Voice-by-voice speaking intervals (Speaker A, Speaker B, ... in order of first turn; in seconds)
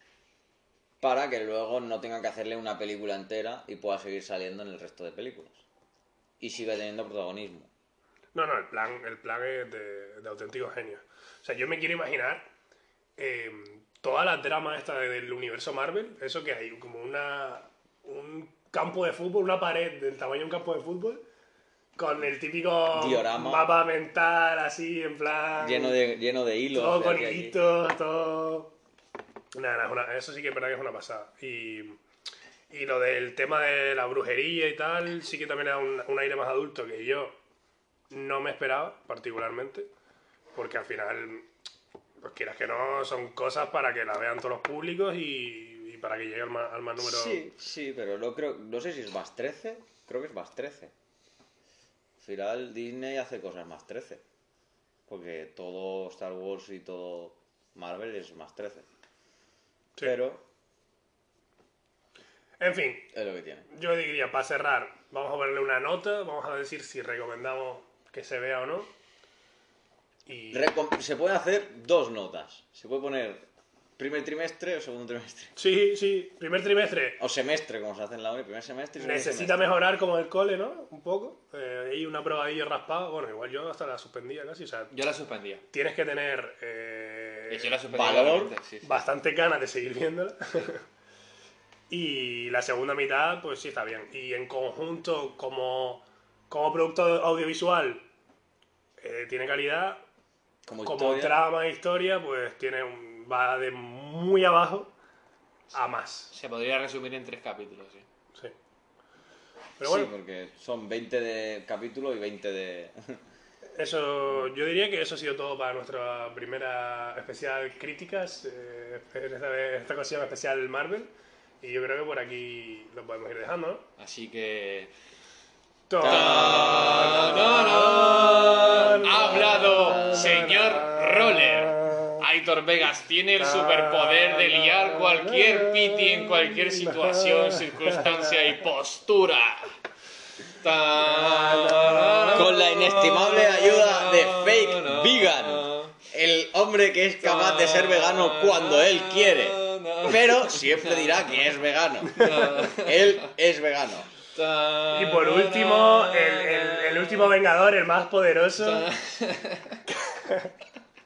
Speaker A: 1.0-5.6, 6.4-7.7, 22.9-23.7, 25.6-27.6, 47.0-50.9, 52.2-54.2, 55.1-58.9, 60.0-60.4, 63.1-63.6, 70.5-75.5, 77.2-79.7, 87.9-88.5, 100.6-101.4, 109.8-113.2, 126.0-130.6, 142.3-154.1
Speaker B: 8.3-12.5, 13.2-21.2, 22.0-26.0, 26.7-28.7, 29.6-32.0, 32.7-37.4, 38.1-39.9, 40.5-41.5, 42.2-47.4, 62.6-63.1, 63.7-68.9, 70.2-70.7, 75.6-77.2, 79.0-84.9, 85.7-87.7, 88.8-90.8, 91.9-98.1, 99.0-100.0, 100.8-104.9, 105.7-106.3, 109.8-110.1, 113.8-123.9, 125.9-132.2, 133.4-138.3, 141.0-142.4, 152.2-152.5, 154.9-158.9, 159.9-160.5
Speaker C: 84.9-85.6, 87.5-89.0, 106.3-108.1, 124.0-124.9, 126.0-139.7, 140.4-145.9, 147.2-151.4, 152.2-153.3, 154.3-157.3, 158.6-159.8